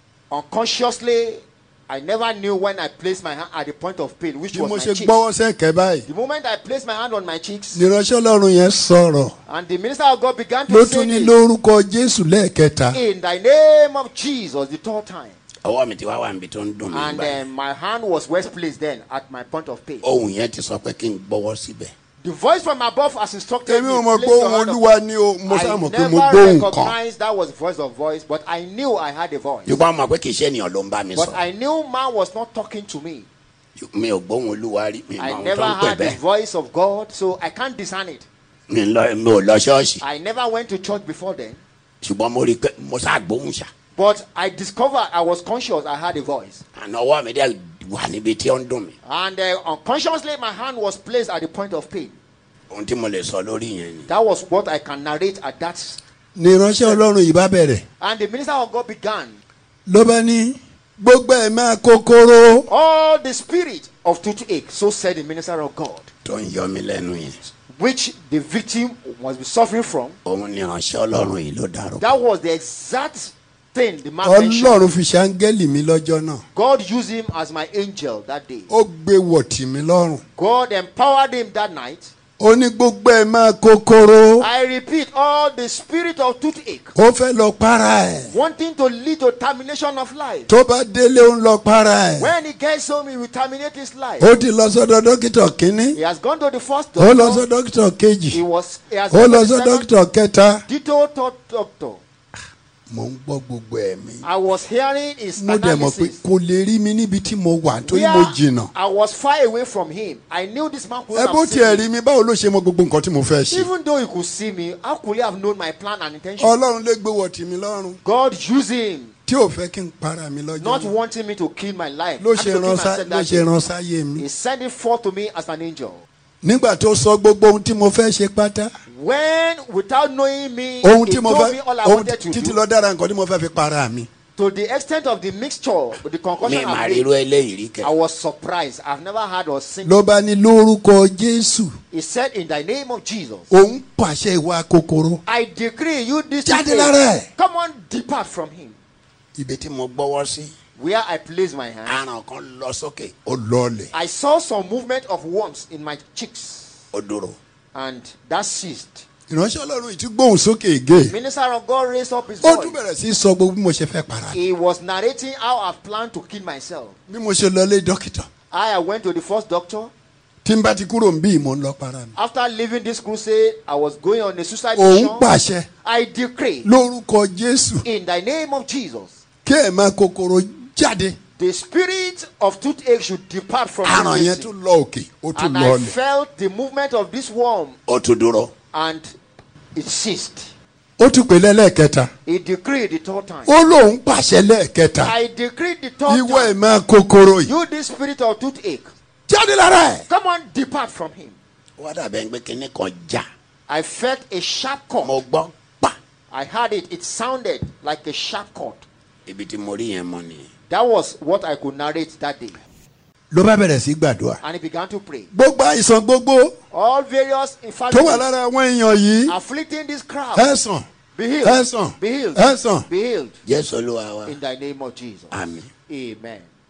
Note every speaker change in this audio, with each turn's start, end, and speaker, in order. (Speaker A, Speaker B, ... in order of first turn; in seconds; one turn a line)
Speaker A: 0.3-5.2
Speaker B: 4.5-6.0
Speaker A: 6.1-7.8
Speaker B: 7.7-9.3
Speaker A: 9.5-11.3
Speaker B: 10.7-13.0
Speaker A: 12.9-15.4
Speaker C: 15.6-17.4
Speaker A: 16.9-20.0
Speaker C: 20.0-21.9
Speaker A: 22.2-24.8
Speaker B: 23.6-26.9
Speaker A: 25.5-29.8
Speaker C: 29.6-31.4
Speaker A: 31.1-33.3
Speaker C: 33.8-36.2
Speaker A: 35.2-38.2
Speaker C: 38.7-40.0
Speaker A: 40.0-41.6
Speaker C: 42.0-43.7
Speaker A: 44.0-46.6
Speaker C: 46.7-48.9
Speaker A: 49.0-52.1
Speaker C: 52.7-54.1
Speaker A: 54.1-56.0
Speaker B: 56.4-57.8
Speaker A: 58.0-59.4
Speaker B: 59.9-62.7
Speaker A: 62.7-66.1
Speaker C: 66.2-67.4
Speaker A: 67.7-70.2
Speaker C: 70.2-72.1
Speaker A: 72.0-74.8
Speaker B: 74.2-76.4
Speaker A: 76.5-78.7
Speaker B: 78.7-80.2
Speaker A: 80.4-82.1
Speaker B: 82.4-84.5
Speaker A: 84.4-86.9
Speaker B: 86.9-88.3
Speaker A: 88.3-90.5
Speaker B: 90.5-92.3
Speaker A: 92.2-94.3
Speaker B: 94.2-96.0
Speaker A: 95.9-97.4
Speaker B: 97.0-98.4
Speaker A: 98.3-99.9
Speaker B: 99.1-100.6
Speaker A: 100.7-102.0
Speaker B: 102.9-104.2
Speaker A: 104.2-106.2
Speaker B: 105.4-108.7
Speaker A: 107.8-111.9
Speaker B: 111.1-113.7
Speaker A: 113.5-116.6
Speaker B: 116.4-118.0
Speaker A: 118.0-119.1
Speaker B: 119.3-120.9
Speaker A: 120.6-123.5
Speaker B: 122.2-124.2
Speaker A: 124.2-126.0
Speaker B: 126.4-128.7
Speaker A: 128.9-132.6
Speaker B: 130.8-134.1
Speaker A: 134.3-137.1
Speaker C: 136.4-137.9
Speaker A: 137.8-140.0
Speaker B: 139.8-141.8
Speaker A: 141.9-143.5
Speaker B: 143.5-145.2
Speaker A: 145.2-148.7
Speaker B: 146.4-147.3
Speaker C: 149.4-150.5
Speaker A: 150.8-152.0
Speaker C: 151.9-153.3
Speaker B: 153.3-153.9
Speaker A: 153.9-156.8
Speaker C: 156.9-157.4
Speaker A: 157.7-159.0
Speaker B: 159.3-161.1
Speaker A: 161.1-162.8
Speaker B: 162.4-164.4
Speaker A: 164.3-166.9
Speaker B: 167.1-168.3
Speaker A: 168.5-169.9
Speaker B: 170.4-172.1
Speaker A: 172.2-175.3
Speaker B: 174.7-175.7
Speaker A: 175.8-176.7
Speaker B: 176.6-177.8
Speaker A: 177.8-179.2
Speaker B: 179.4-181.2
Speaker A: 181.4-184.5
Speaker B: 183.8-185.9
Speaker A: 185.3-187.8
Speaker C: 187.9-188.5
Speaker A: 188.7-189.1
Speaker A: 189.7-190.5
Speaker B: 191.0-192.1
Speaker A: 192.2-193.5
Speaker B: 193.4-195.1
Speaker A: 195.0-196.6
Speaker B: 196.1-197.5
Speaker A: 197.4-198.9
Speaker B: 199.3-200.0
Speaker A: 200.1-201.3
Speaker C: 201.8-203.2
Speaker A: 203.7-205.2
Speaker C: 205.0-205.9
Speaker A: 206.3-208.8
Speaker C: 209.2-210.5
Speaker A: 210.7-212.6
Speaker B: 213.3-214.4
Speaker A: 214.4-215.3
Speaker B: 215.3-216.5
Speaker A: 216.7-218.3
Speaker B: 217.9-219.3
Speaker A: 219.3-220.5
Speaker B: 220.3-220.8
Speaker A: 221.2-223.4
Speaker B: 221.4-222.8
Speaker C: 223.4-224.4
Speaker A: 224.2-225.3
Speaker C: 225.3-225.7
Speaker A: 225.9-226.5